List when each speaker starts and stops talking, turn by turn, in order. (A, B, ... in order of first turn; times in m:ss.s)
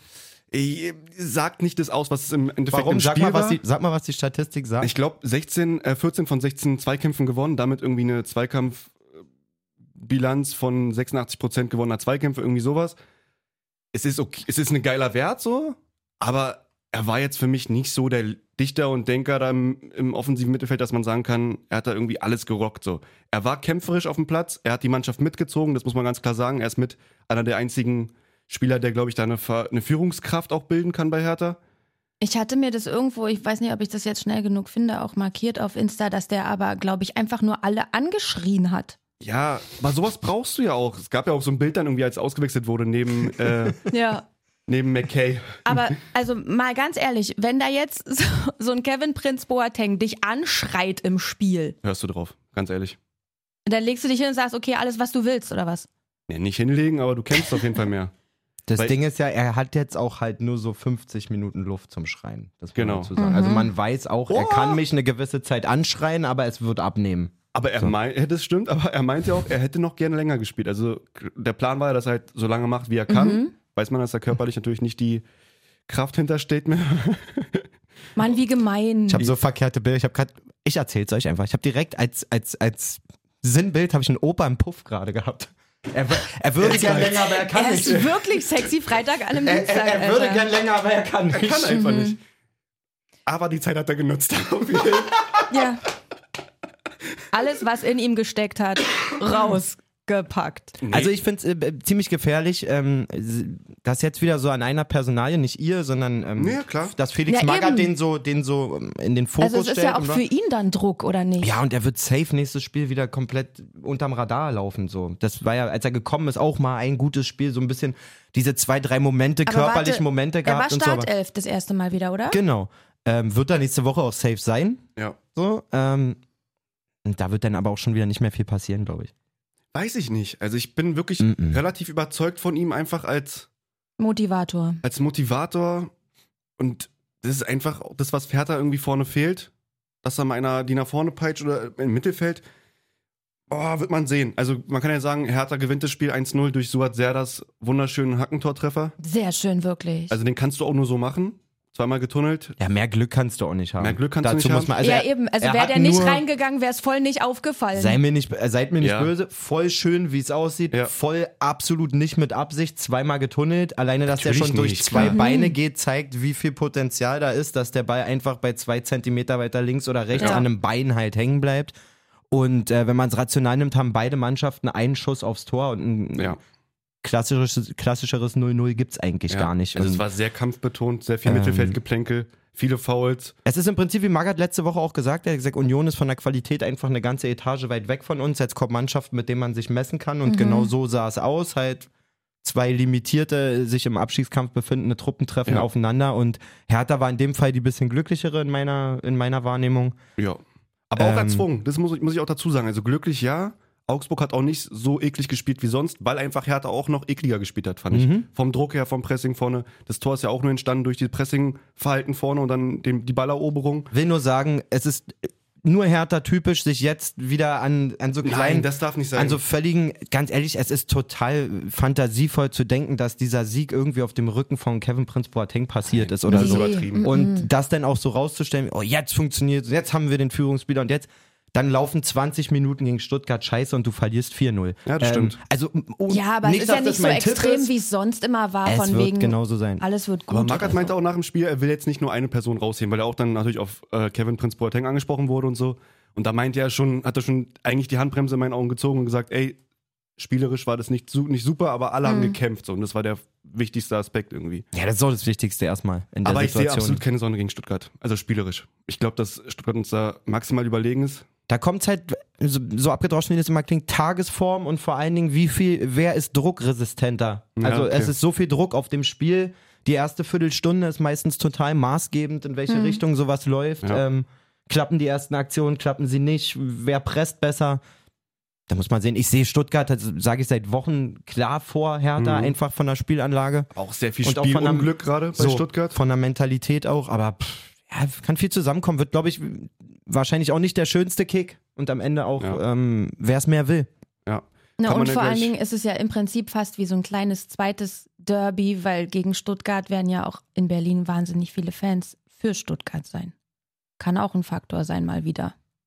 0:00.5-0:03.6 A
0:02.7-0:04.9 B
0:04.8-0:09.0 A
0:10.0-0:13.0 A
0:13.9-0:31.6 A
0:32.2-0:39.0 C
0:39.2-0:43.8 A
0:43.9-0:44.2 C
0:44.7-0:45.9 A
0:45.6-0:51.8 C
0:51.8-0:53.0 A
0:53.6-0:55.9 C
0:56.3-0:58.1 A
0:58.7-1:07.9 B
1:02.7-1:03.1 A
1:03.2-1:03.7 C
1:04.3-1:04.7 A
1:07.5-1:15.2 A
1:13.1-1:13.5 C
1:15.9-1:17.7 A
1:18.2-1:19.3 C
1:19.1-1:28.2 B
1:26.6-1:27.4 A
1:27.4-1:30.5 C
1:29.4-1:31.8 B
1:31.3-1:32.2 A
1:31.7-1:32.2 C
1:33.2-1:35.5 A
1:35.5-1:35.8 C
1:37.3-1:40.8 C
1:40.8-1:41.1 A
1:40.9-1:50.2 B
1:46.4-1:46.9 A
1:47.3-1:47.9 C
1:49.4-1:51.6 C
1:51.4-2:01.1 B
1:59.4-2:02.4 C
2:02.3-2:06.2 B
2:07.0-2:09.1 B
2:09.7-2:13.5 A
2:11.2-2:11.6 B
2:14.0-2:14.8 C
2:14.8-2:15.9 A
2:16.6-2:19.5 A
2:20.0-2:22.4 A
2:23.5-2:28.9 A
2:29.0-2:30.2 C
2:30.1-2:32.6 A
2:32.6-2:36.2 B
2:33.8-2:34.7 A
2:34.8-2:38.0 C
2:37.7-2:51.7 B
2:38.8-2:39.1 A
2:44.1-2:45.2 A
2:44.9-2:45.5 C
2:50.1-2:50.4 A
2:52.3-2:56.4 B
2:57.0-3:00.0 B
2:59.3-3:03.3 A
3:01.2-3:01.8 B
3:03.4-3:11.9 B
3:10.2-3:10.7 C
3:12.4-3:20.0 B
3:20.2-3:33.9 A
3:21.0-3:21.4 B
3:27.9-3:28.3 B
3:33.9-3:57.7 B
3:38.2-3:39.4 A
3:45.9-3:47.0 A
3:46.3-3:47.5 C
3:54.8-3:55.4 A
3:56.1-4:00.9 C
3:58.6-3:59.8 B
4:00.3-4:09.6 A
4:10.2-4:14.6 A
4:12.0-4:12.4 C
4:14.7-4:17.0 B
4:16.2-4:21.2 A
4:21.5-4:37.8 B
4:27.6-4:28.1 A
4:32.7-4:33.0 C
4:38.7-4:43.7 B
4:42.2-4:42.5 A
4:43.7-4:46.0 A
4:44.2-4:53.9 B
4:54.2-4:55.5 A
4:54.8-5:03.3 C
5:04.0-5:05.5 C